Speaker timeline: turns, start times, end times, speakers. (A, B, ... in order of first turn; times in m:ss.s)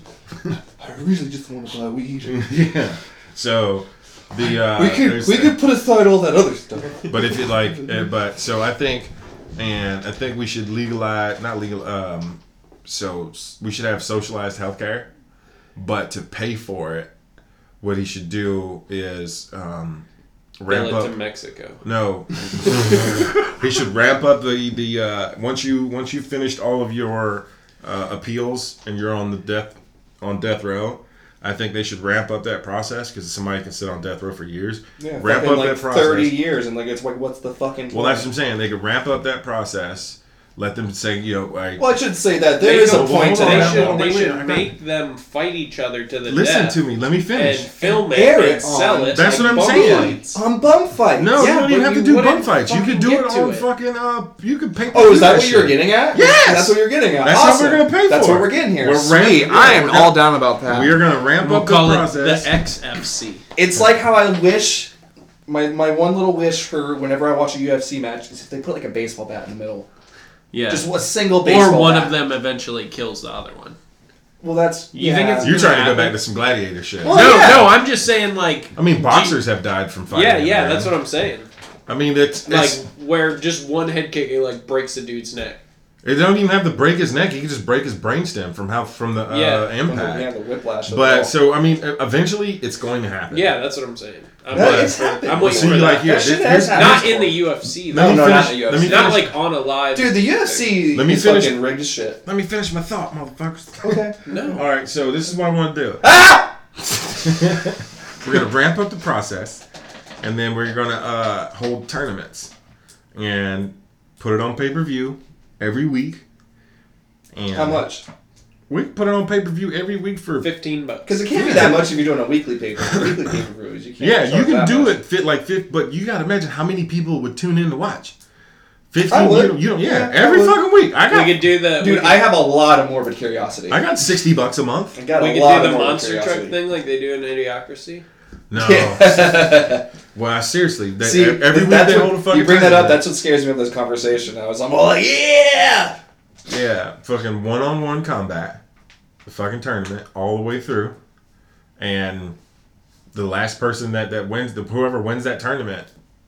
0:00.8-0:02.5 A
0:02.2-0:05.6 B
0:04.4-0:08.1 A
0:07.1-0:15.1 B
0:15.8-0:17.1 B
0:17.8-0:20.1 B
0:20.6-0:21.2 B
0:20.7-0:23.5 C
0:21.8-0:36.4 B
0:35.0-0:38.3 A
0:37.9-0:41.9 B
0:41.8-0:44.0 A
0:42.6-0:46.8 C
0:42.8-0:44.7 B
0:46.3-0:48.1 B
0:47.3-0:50.4 C
0:48.1-0:51.6 A
0:49.1-0:50.2 B
0:51.2-1:02.5 B
0:51.4-0:53.7 C
0:54.9-1:01.0 A
1:01.4-1:03.4 C
1:03.6-1:04.9 A
1:05.5-1:09.9 A
1:10.5-1:13.8 C
1:10.7-1:12.1 A
1:14.4-1:15.6 A
1:14.9-1:16.2 C
1:15.4-1:17.7 B
1:17.0-1:17.7 A
1:17.1-1:19.4 C
1:18.8-1:20.9 B
1:20.1-1:21.5 C
1:21.9-1:22.8 B
1:22.5-1:25.6 C
1:26.0-1:30.3 B
1:29.3-1:29.7 C
1:29.8-1:31.3 A
1:30.9-1:33.6 B
1:33.3-1:40.8 C
1:34.5-1:37.3 B
1:34.5-1:37.4 A
1:37.9-1:39.4 B
1:37.9-1:39.3 A
1:39.9-1:42.2 A
1:40.9-1:41.6 B
1:42.2-1:46.1 B
1:43.8-1:44.6 A
1:44.3-1:44.6 C
1:46.0-1:46.5 A
1:47.1-1:49.6 B
1:50.2-1:52.5 B
1:53.1-1:56.2 B
1:57.3-1:57.8 B
1:57.5-1:58.0 A
1:58.7-2:00.5 B
2:00.4-2:01.2 C
2:01.1-2:05.0 A
2:01.3-2:01.9 B
2:02.9-2:03.2 B
2:04.0-2:08.2 B
2:08.9-2:11.5 B
2:09.1-2:10.6 A
2:11.1-2:12.3 C
2:11.8-2:13.8 A
2:13.7-2:15.0 B
2:15.0-2:16.6 A
2:15.1-2:18.1 C
2:18.5-2:19.6 B
2:18.6-2:19.8 A
2:20.1-2:23.1 B
2:21.0-2:26.0 A
2:26.5-2:28.6 B
2:29.3-2:31.0 B
2:31.8-2:32.4 B
2:33.1-2:35.9 B